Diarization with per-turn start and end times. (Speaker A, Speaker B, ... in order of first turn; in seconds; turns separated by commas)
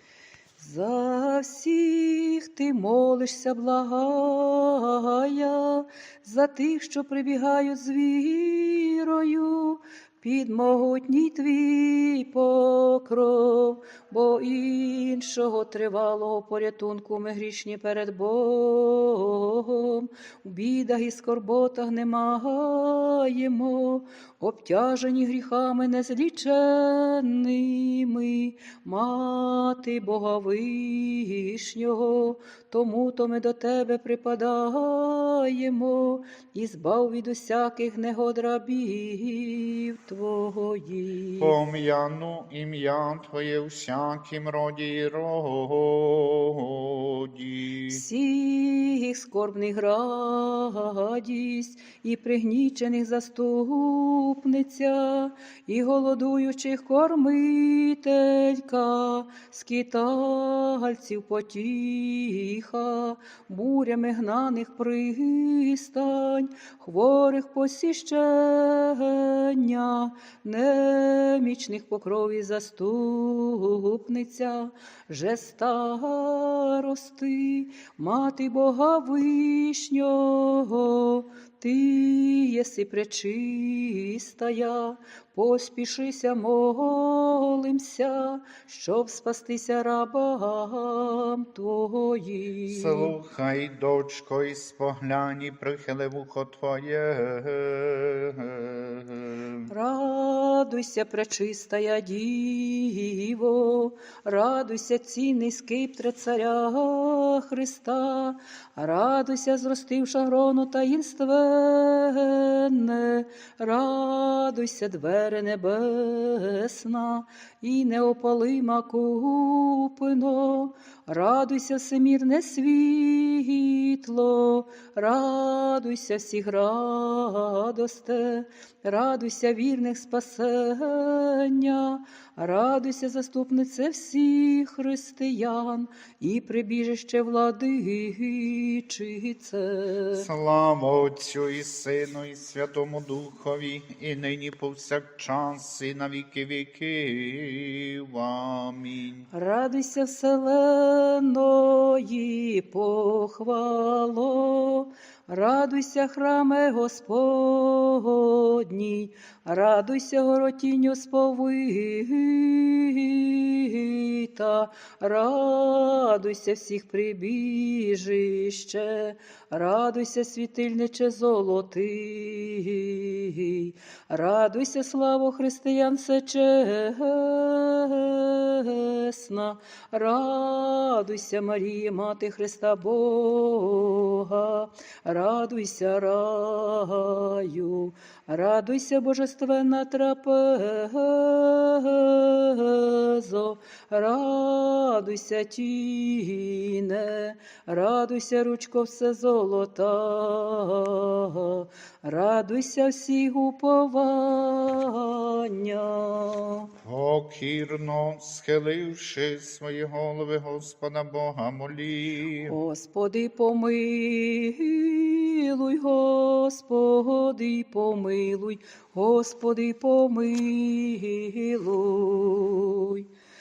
Speaker A: 0.6-41.5, Speaker B: 41.4-48.0, Speaker A: 47.9-93.1, Speaker B: 92.7-99.7, Speaker A: 99.7-140.3, Speaker B: 140.2-149.3, Speaker A: 149.3-206.7, Speaker B: 206.8-212.6, Speaker A: 212.5-223.1